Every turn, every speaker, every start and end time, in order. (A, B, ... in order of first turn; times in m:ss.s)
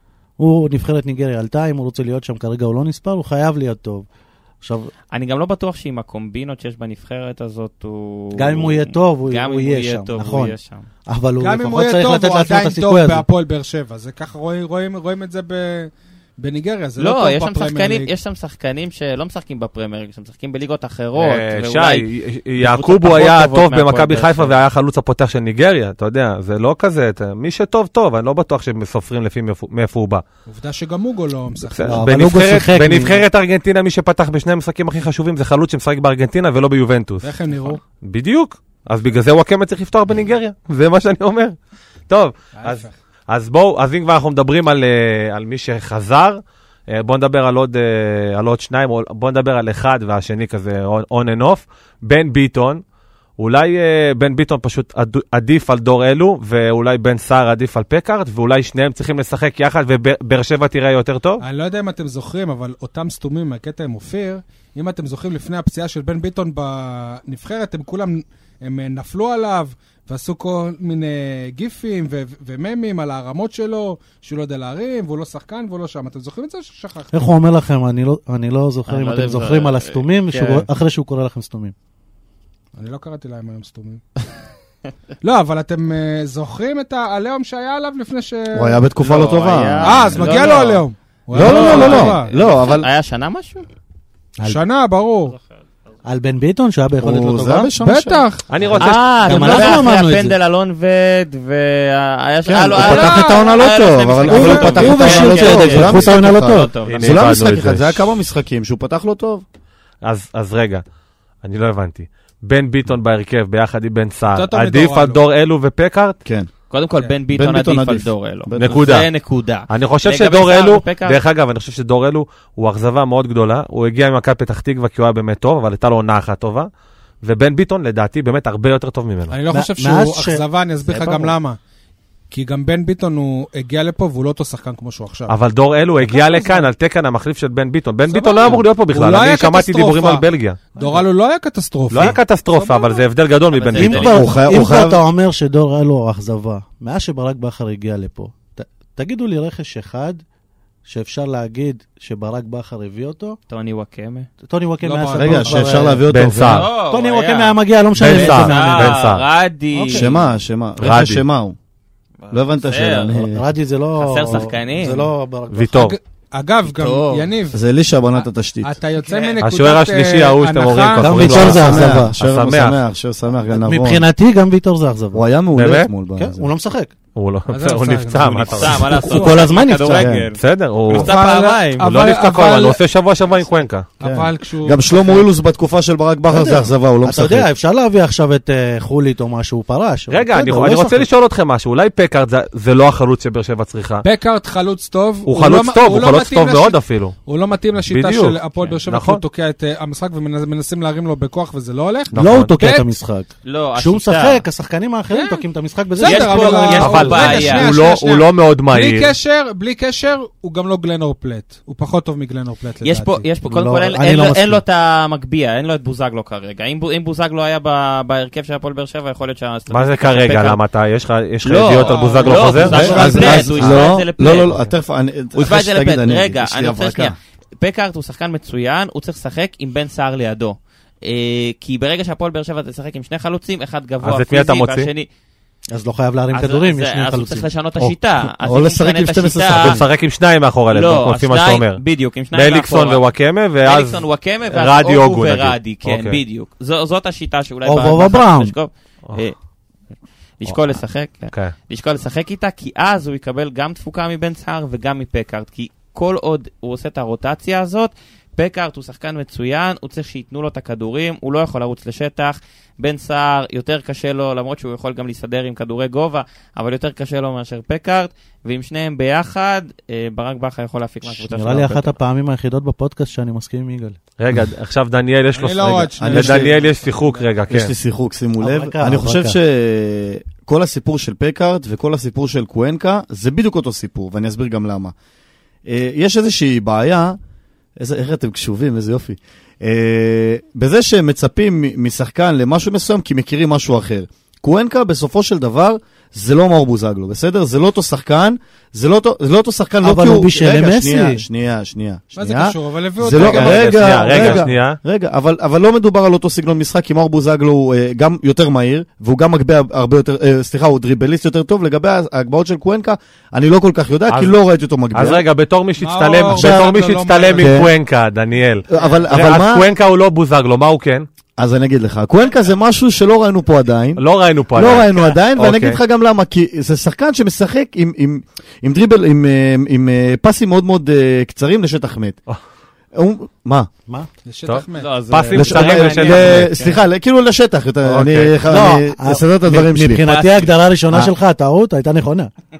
0:00.4-0:04.1 A
0:04.6-0:04.9 A
0:05.1-0:10.9 B
0:08.4-0:10.5 A
0:11.1-0:13.2 A
0:11.4-0:18.1 C
0:17.0-0:22.0 B
0:21.2-0:30.2 D
0:22.6-0:24.6 B
0:30.5-0:32.0 C
0:31.6-0:37.3 D
0:31.9-0:33.2 A
0:37.2-0:37.8 C
0:38.0-0:41.5 D
0:42.1-0:52.8 D
0:42.6-0:42.9 C
0:53.4-1:01.4 D
1:01.4-1:17.1 C
1:17.1-1:21.7 A
1:18.9-1:20.7 B
1:22.7-1:24.0 C
1:25.2-1:28.8 C
1:28.5-1:30.3 E
1:29.0-1:33.6 B
1:29.8-1:32.3 C
1:31.3-1:32.9 E
1:34.4-1:35.4 C
1:36.0-1:37.7 A
1:37.0-1:38.2 E
1:37.8-1:38.4 C
1:38.5-1:39.8 D
1:38.8-1:47.2 B
1:39.2-1:40.4 A
1:42.5-1:49.4 E
1:42.8-1:43.6 C
1:44.3-1:46.7 A
1:44.4-1:44.7 C
1:46.9-1:48.0 D
1:50.0-1:50.8 D
1:51.4-1:56.2 D
1:54.3-1:55.2 C
1:56.7-2:01.2 B
1:57.3-1:58.9 E
1:58.6-1:59.1 D
1:59.7-2:06.7 D
2:07.2-2:09.3 D
2:09.3-2:11.6 C
2:09.5-2:11.3 A
2:12.3-2:15.3 C
2:15.3-2:20.6 D
2:16.0-2:16.7 C
2:18.1-2:23.0 C
2:21.9-2:24.2 D
2:23.5-2:24.3 B
2:23.8-2:30.2 A
2:24.0-2:25.0 E
2:30.9-2:33.4 A
2:33.5-2:34.3 B
2:34.4-2:36.0 A
2:34.8-2:35.8 C
2:35.1-2:36.7 E
2:36.1-2:36.7 D
2:36.5-2:40.1 B
2:36.9-2:39.0 A
2:38.0-2:39.2 D
2:39.7-2:40.2 A
2:39.9-2:41.6 E
2:40.8-2:41.2 D
2:42.2-2:43.2 B
2:42.3-2:43.5 E
2:43.3-2:45.8 A
2:44.0-2:45.1 B
2:45.5-2:46.0 D
2:45.7-2:47.6 C
2:46.6-2:47.3 B
2:47.5-2:48.8 E
2:48.2-2:51.5 C
2:49.0-2:49.4 B
2:49.4-2:52.8 D
2:51.0-2:52.1 A
2:51.2-2:54.0 E
2:53.5-2:55.2 A
2:55.1-2:56.5 E
2:55.6-2:55.9 D
2:56.1-2:56.9 A
2:57.2-2:58.9 D
2:57.5-2:59.5 C
2:58.5-3:01.9 B
2:59.1-3:00.1 A
2:59.9-3:00.3 E
3:00.4-3:01.1 D
3:00.9-3:02.8 C
3:01.8-3:03.9 D
3:04.0-3:05.2 C
3:04.0-3:07.5 E
3:06.3-3:11.1 A
3:10.1-3:14.0 D
3:14.0-3:22.9 C
3:15.3-3:17.2 D
3:17.9-3:19.2 D
3:22.1-3:22.5 D
3:22.1-3:27.1 A
3:23.4-3:24.4 B
3:25.1-3:25.4 C
3:26.0-3:33.2 C
3:26.0-3:27.7 B
3:26.8-3:29.1 D
3:32.8-3:40.6 B
3:33.4-3:34.6 A
3:39.7-3:43.8 D
3:41.4-3:44.7 B
3:41.9-3:43.5 C
3:42.6-3:47.2 E
3:45.3-3:55.1 B
3:54.0-3:54.9 D
3:55.7-3:57.5 A
3:56.3-3:59.8 B
3:57.8-3:59.8 E
3:59.5-4:01.8 D
4:00.7-4:03.0 B
4:02.3-4:06.2 D
4:03.6-4:09.4 B
4:07.6-4:08.5 A
4:10.4-4:32.0 B
4:31.0-4:34.0 A
4:34.2-4:37.7 D
4:35.3-4:36.9 C
4:36.0-4:36.6 E
4:37.5-4:44.9 E
4:38.4-4:39.4 A
4:45.6-4:47.2 E
4:47.8-5:15.2 E
4:59.8-5:01.2 A
5:02.1-5:04.5 C
5:03.1-5:04.8 D
5:14.9-5:21.0 D
5:15.8-5:17.7 C
5:16.3-5:16.7 E
5:17.4-5:17.7 E
5:18.7-5:19.7 E
5:21.4-5:32.2 E
5:24.0-5:25.8 D
5:32.9-5:33.7 E
5:34.2-5:35.0 C
5:34.4-5:36.5 D
5:34.7-5:36.8 B
5:35.3-5:40.1 E
5:37.9-5:38.4 D
5:38.4-5:42.3 A
5:40.0-5:40.5 B